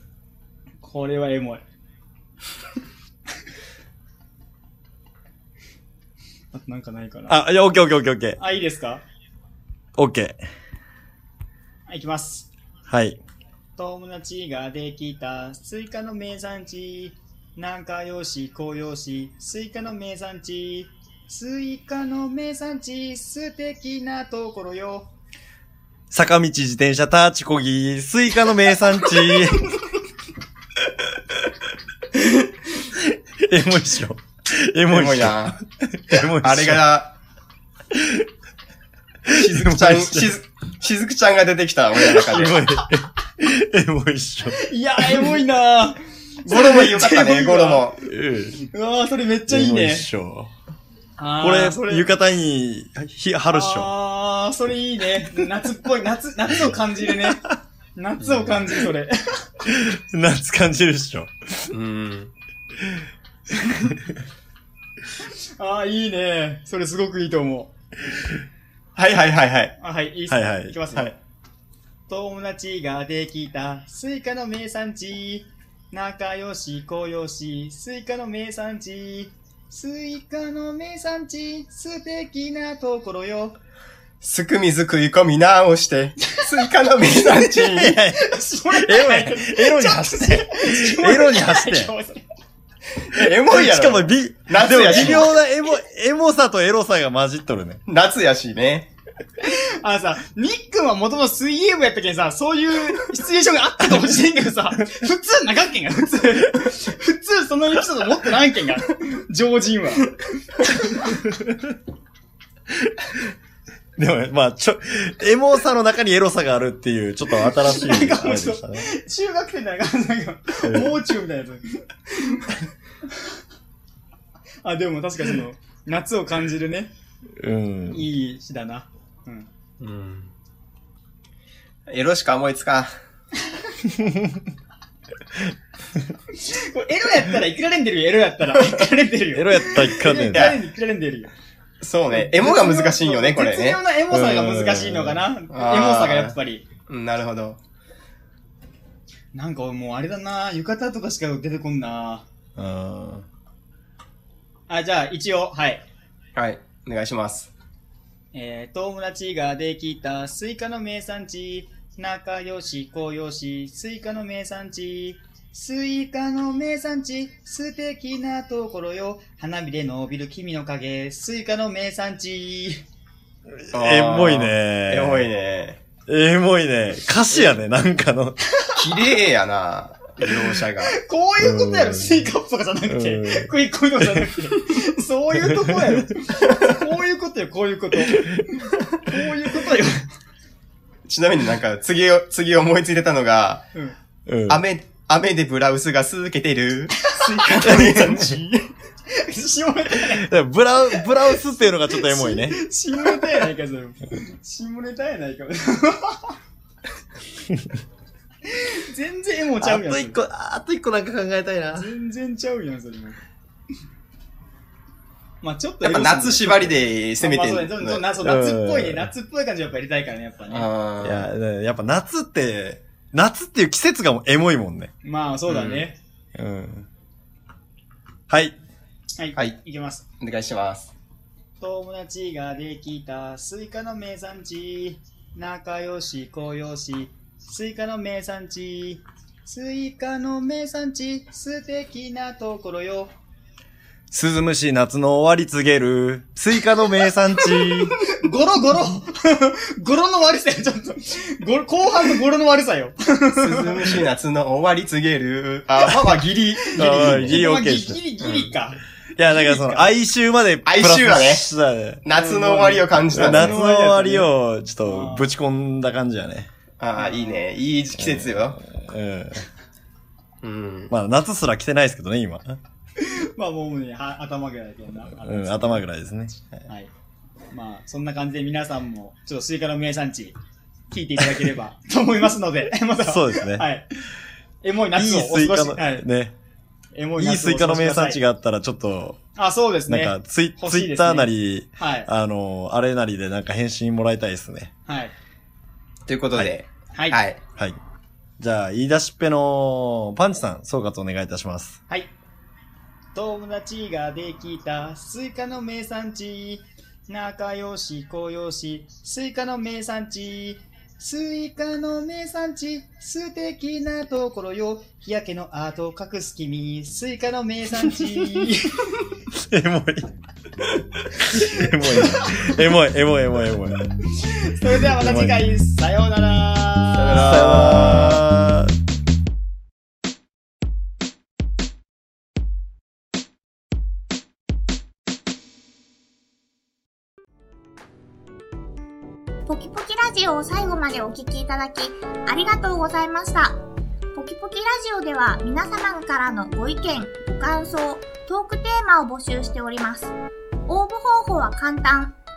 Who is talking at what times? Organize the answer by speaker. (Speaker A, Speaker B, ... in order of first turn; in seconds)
Speaker A: 0.8-1.6, 6.5-7.4, 8.4-9.0, 11.9-12.5, 13.8-25.1, 44.6-47.9, 48.7-50.1, 51.2-52.1, 53.5-57.4, 58.0-59.5, 65.6-67.7, 69.8-71.1, 72.1-83.6, 88.2-92.2, 99.4-111.1, 117.4-122.5, 124.6-126.9, 127.9-129.5, 136.3-141.3, 142.1-146.7, 149.3-152.2, 154.7-155.8, 158.3-172.8, 180.9-190.1, 197.8-198.6, 199.1-200.3, 201.9-206.3, 208.5-210.2, 211.7-213.2, 215.4-220.7, 225.0-226.0, 229.2-230.0, 231.6-243.1, 247.5-254.0, 256.1-259.9, 262.1-264.3, 264.8-265.3, 267.0-267.4, 273.0-275.8, 277.5-280.4, 280.9-283.9, 284.6-286.1, 286.9-288.2, 289.4-292.1, 294.9-295.1, 296.9-297.2, 303.1-318.9, 321.3-322.6, 324.2-327.3
Speaker B: 7.3-8.4, 10.0-10.4, 12.9-13.2, 26.1-29.7, 33.4-36.9, 37.9-38.3, 39.3-40.3, 42.1-45.4, 48.0-48.7, 49.5-50.5, 51.4-54.0, 59.6-61.7, 70.3-71.2, 87.6-91.9, 93.5-97.8, 111.1-111.7, 114.0-118.9, 120.6-121.0, 127.4-128.1, 139.3-140.6, 144.1-145.3, 152.6-153.2, 173.6-175.3, 176.1-178.4, 181.4-182.3, 182.9-184.2, 185.4-186.0, 188.1-188.4, 194.3-194.6, 197.7-198.3, 199.9-202.6, 209.6-211.9, 218.2-219.1, 221.0-224.9, 226.3-226.9, 228.3-228.6, 244.1-247.9, 256.8-258.0, 259.2-262.0, 263.1-266.5, 268.0-269.5, 270.9-272.6, 275.2-276.5, 283.0-283.7, 284.9-286.4, 287.2-289.2, 289.9-294.7, 298.4-301.8, 319.3-320.1, 320.6-323.9, 324.9-325.4, 327.1-328.7
Speaker C: 34.9-35.6, 36.4-37.1, 39.3-42.6, 46.5-48.0, 58.2-58.6, 61.7-62.3, 69.0-69.7, 84.2-88.0, 93.0-95.3, 97.9-98.9, 129.8-130.3, 131.9-132.9, 140.2-140.6, 141.8-143.8, 145.5-146.4, 146.9-147.6, 156.4-157.5, 173.7-175.8, 178.8-181.0, 191.1-193.7, 194.5-198.5, 215.8-218.1, 220.5-221.3, 225.5-225.9, 230.2-230.9, 253.4-257.5, 260.6-261.5, 262.1-263.6, 266.8-268.6, 270.4-270.9, 296.1-297.4, 327.0-328.2
Speaker D: 339.5-343.6, 344.1-350.1, 350.7-352.2